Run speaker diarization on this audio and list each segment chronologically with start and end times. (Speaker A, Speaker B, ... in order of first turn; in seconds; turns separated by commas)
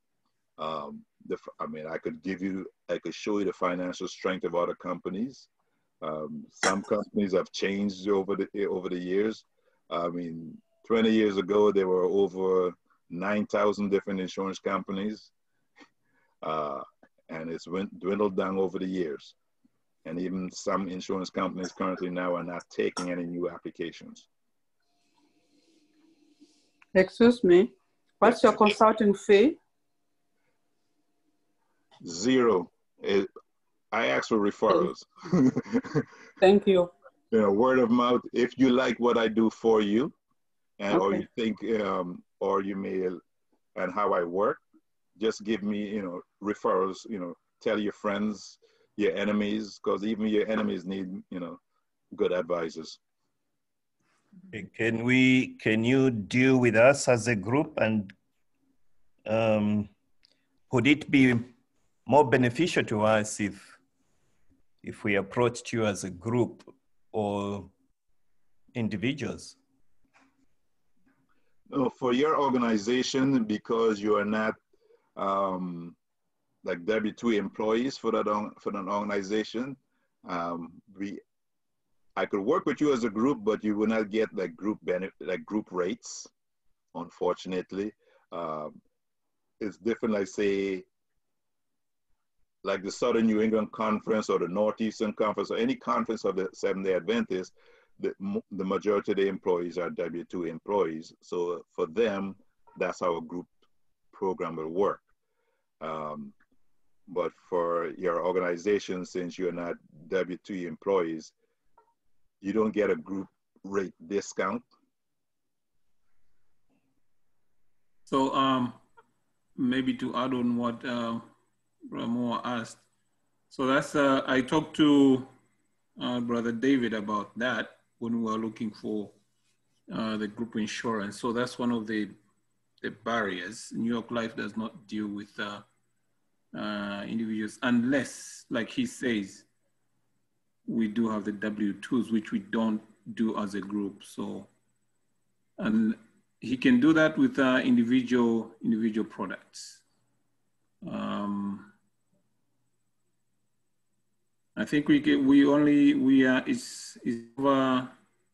Speaker A: 0.6-5.5, Speaker A: 6.0-15.3, Speaker A: 16.4-19.3, Speaker A: 20.0-24.3, Speaker B: 26.9-27.7, Speaker B: 28.2-29.6, Speaker A: 28.2-28.8, Speaker A: 32.0-33.3, Speaker A: 33.9-36.0, Speaker B: 36.4-36.9, Speaker A: 37.3-40.1, Speaker A: 40.8-43.2, Speaker B: 40.9-41.2, Speaker A: 43.7-44.6, Speaker A: 45.2-51.6, Speaker A: 52.1-53.0, Speaker C: 54.5-58.1, Speaker C: 59.2-59.9, Speaker C: 60.7-61.5, Speaker C: 62.0-63.7, Speaker C: 64.8-67.7, Speaker C: 68.7-69.6, Speaker A: 71.7-74.5, Speaker A: 75.2-76.0, Speaker A: 76.6-81.2, Speaker A: 82.2-86.3, Speaker A: 86.9-88.8, Speaker A: 89.6-90.8, Speaker A: 92.6-103.5, Speaker A: 104.1-105.0, Speaker A: 105.8-106.3, Speaker A: 107.1-111.3, Speaker A: 112.4-114.6, Speaker D: 118.1-118.8, Speaker D: 119.5-121.3, Speaker D: 121.9-122.8, Speaker D: 123.5-125.3, Speaker D: 126.0-129.1, Speaker D: 129.9-132.2, Speaker D: 132.8-135.6, Speaker D: 136.5-139.4, Speaker D: 140.7-144.5, Speaker D: 145.6-149.8, Speaker D: 150.8-151.7, Speaker D: 154.6-157.9